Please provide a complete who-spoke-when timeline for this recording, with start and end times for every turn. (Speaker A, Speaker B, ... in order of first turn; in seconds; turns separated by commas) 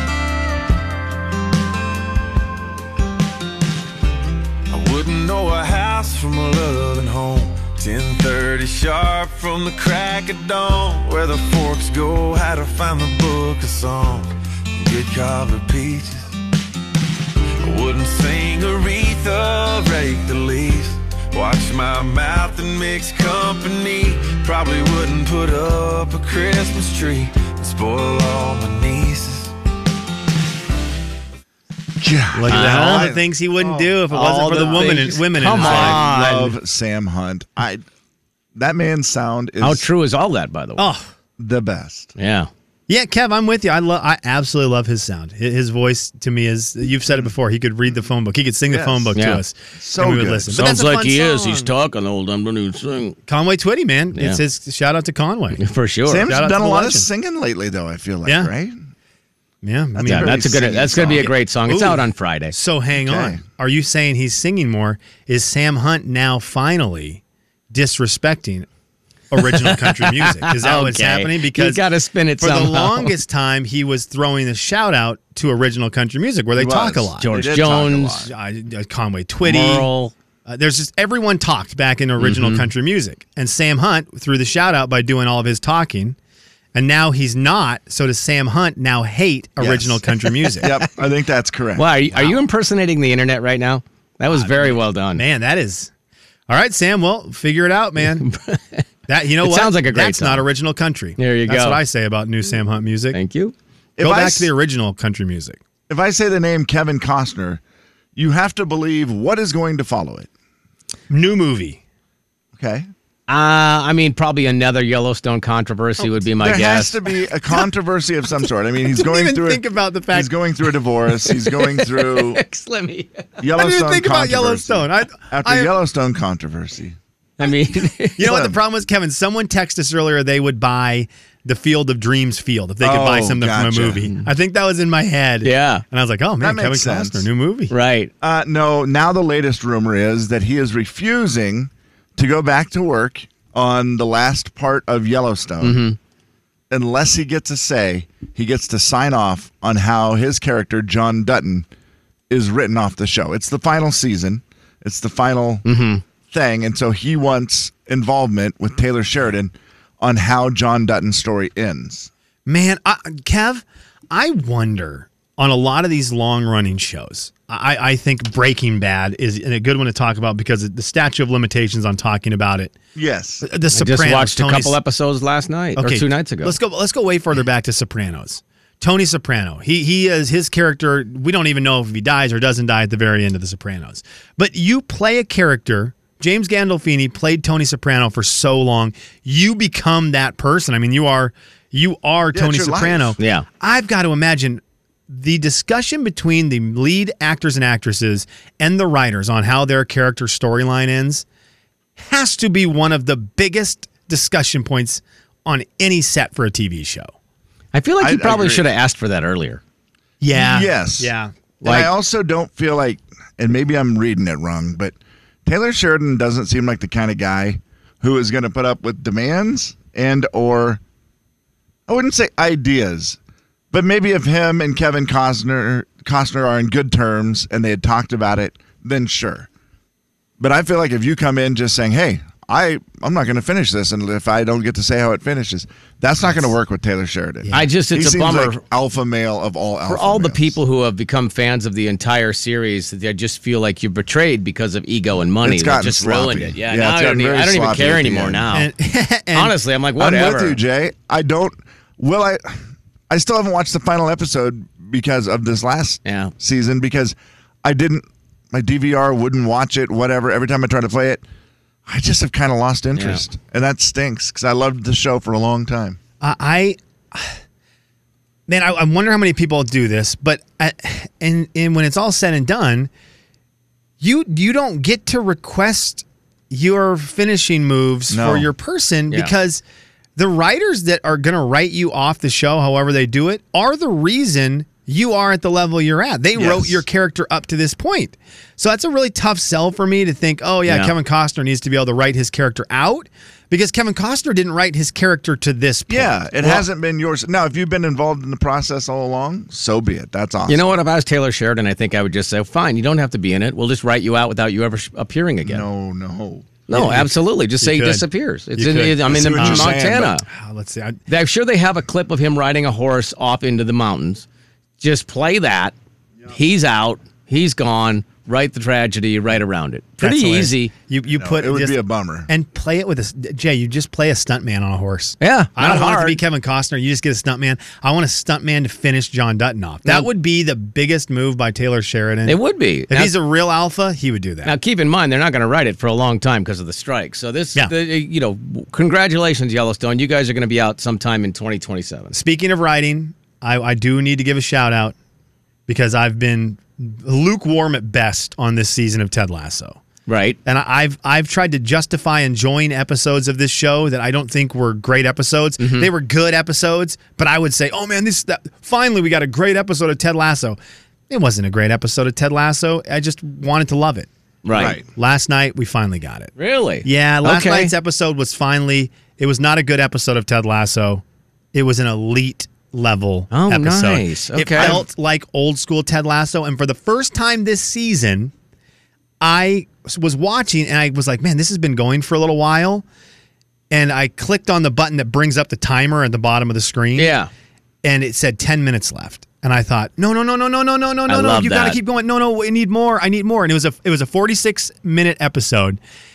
Speaker A: 4.7-16.3, Speaker A: 17.6-29.5, Speaker B: 32.0-33.6, Speaker C: 32.3-36.0, Speaker D: 32.5-33.1, Speaker D: 34.1-36.6, Speaker B: 34.5-34.9, Speaker B: 35.5-37.8, Speaker B: 38.5-39.9, Speaker D: 39.6-40.8, Speaker C: 40.8-41.1, Speaker B: 41.4-42.1, Speaker D: 42.2-42.5, Speaker C: 42.9-51.7, Speaker B: 48.7-49.1, Speaker D: 49.1-49.4, Speaker B: 49.8-50.6, Speaker D: 50.5-53.2, Speaker C: 53.3-55.6, Speaker D: 54.1-54.4, Speaker D: 55.6-56.3, Speaker B: 56.1-58.8, Speaker C: 56.3-57.1, Speaker C: 59.6-67.2, Speaker B: 60.0-61.3, Speaker D: 60.0-62.5, Speaker B: 63.0-63.4, Speaker C: 67.7-68.7, Speaker C: 69.3-71.8, Speaker D: 69.4-73.1, Speaker C: 72.4-77.3, Speaker B: 76.5-78.3, Speaker D: 77.2-78.2, Speaker C: 78.2-79.9, Speaker D: 79.4-80.1, Speaker C: 80.5-86.2, Speaker D: 82.2-82.7, Speaker C: 86.7-90.8, Speaker B: 89.6-90.0, Speaker B: 90.6-91.9, Speaker D: 91.8-95.2, Speaker C: 94.3-95.9, Speaker C: 96.5-98.3, Speaker D: 98.0-98.8, Speaker C: 99.1-103.2, Speaker D: 99.4-100.5, Speaker D: 101.2-101.8, Speaker D: 103.1-103.5, Speaker B: 104.0-104.5, Speaker C: 104.0-105.6, Speaker B: 105.9-107.6, Speaker B: 108.2-110.3, Speaker C: 111.1-111.8, Speaker B: 112.6-112.9, Speaker D: 113.3-117.0, Speaker B: 116.4-122.4, Speaker C: 118.9-120.3, Speaker D: 121.8-123.3, Speaker B: 123.4-127.0, Speaker C: 123.6-125.7, Speaker D: 127.4-128.3, Speaker C: 128.2-137.7, Speaker B: 128.2-128.6, Speaker B: 132.8-134.1, Speaker D: 135.4-135.8, Speaker B: 136.4-137.3, Speaker D: 137.7-138.1, Speaker B: 138.2-145.8, Speaker D: 145.6-146.0, Speaker B: 146.7-151.7, Speaker B: 152.3-155.6, Speaker D: 155.7-156.0, Speaker B: 156.3-162.1, Speaker C: 162.5-172.8, Speaker B: 172.9-173.4, Speaker C: 173.4-174.8, Speaker D: 173.7-176.6, Speaker C: 175.8-201.2, Speaker B: 192.3-193.2, Speaker D: 193.2-193.5, Speaker C: 202.0-207.1, Speaker D: 207.7-209.6, Speaker B: 208.0-208.7, Speaker C: 210.2-211.3, Speaker B: 210.3-211.1, Speaker B: 211.6-214.9, Speaker D: 211.6-211.9, Speaker B: 215.5-220.8, Speaker B: 221.9-223.2, Speaker B: 223.7-229.5, Speaker B: 230.4-240.6, Speaker C: 237.4-237.7, Speaker D: 237.5-238.6, Speaker D: 239.9-248.7, Speaker B: 245.4-248.5, Speaker C: 248.5-249.6, Speaker D: 249.3-250.6, Speaker B: 250.0-261.2, Speaker D: 256.1-256.3, Speaker B: 261.9-266.0, Speaker D: 262.9-263.2, Speaker C: 266.2-267.4, Speaker C: 268.5-272.9, Speaker C: 274.0-279.6, Speaker B: 278.1-278.5, Speaker C: 280.2-296.6, Speaker B: 286.4-286.8, Speaker D: 290.7-290.9, Speaker B: 295.9-300.7, Speaker D: 300.5-305.7, Speaker B: 305.4-306.7, Speaker D: 306.7-310.2, Speaker C: 306.7-308.0, Speaker C: 308.6-309.7, Speaker B: 309.0-310.2, Speaker C: 310.3-311.0, Speaker D: 311.1-314.3, Speaker D: 314.8-315.7, Speaker D: 316.3-320.7, Speaker C: 320.0-332.4, Speaker B: 321.1-322.3, Speaker D: 325.2-326.2, Speaker D: 332.3-333.1, Speaker C: 332.9-334.5, Speaker D: 334.4-342.1, Speaker C: 342.1-344.9, Speaker C: 345.7-349.8, Speaker D: 350.1-350.4, Speaker C: 350.4-360.6, Speaker D: 355.6-355.9, Speaker C: 361.1-364.1, Speaker D: 364.4-364.8, Speaker B: 364.5-364.8, Speaker C: 364.8-371.0, Speaker D: 366.4-367.7, Speaker C: 371.5-378.3, Speaker D: 373.3-374.8, Speaker B: 374.6-374.8, Speaker C: 379.2-382.8, Speaker C: 383.7-387.1, Speaker D: 387.0-387.3, Speaker C: 387.8-395.8, Speaker D: 391.1-391.8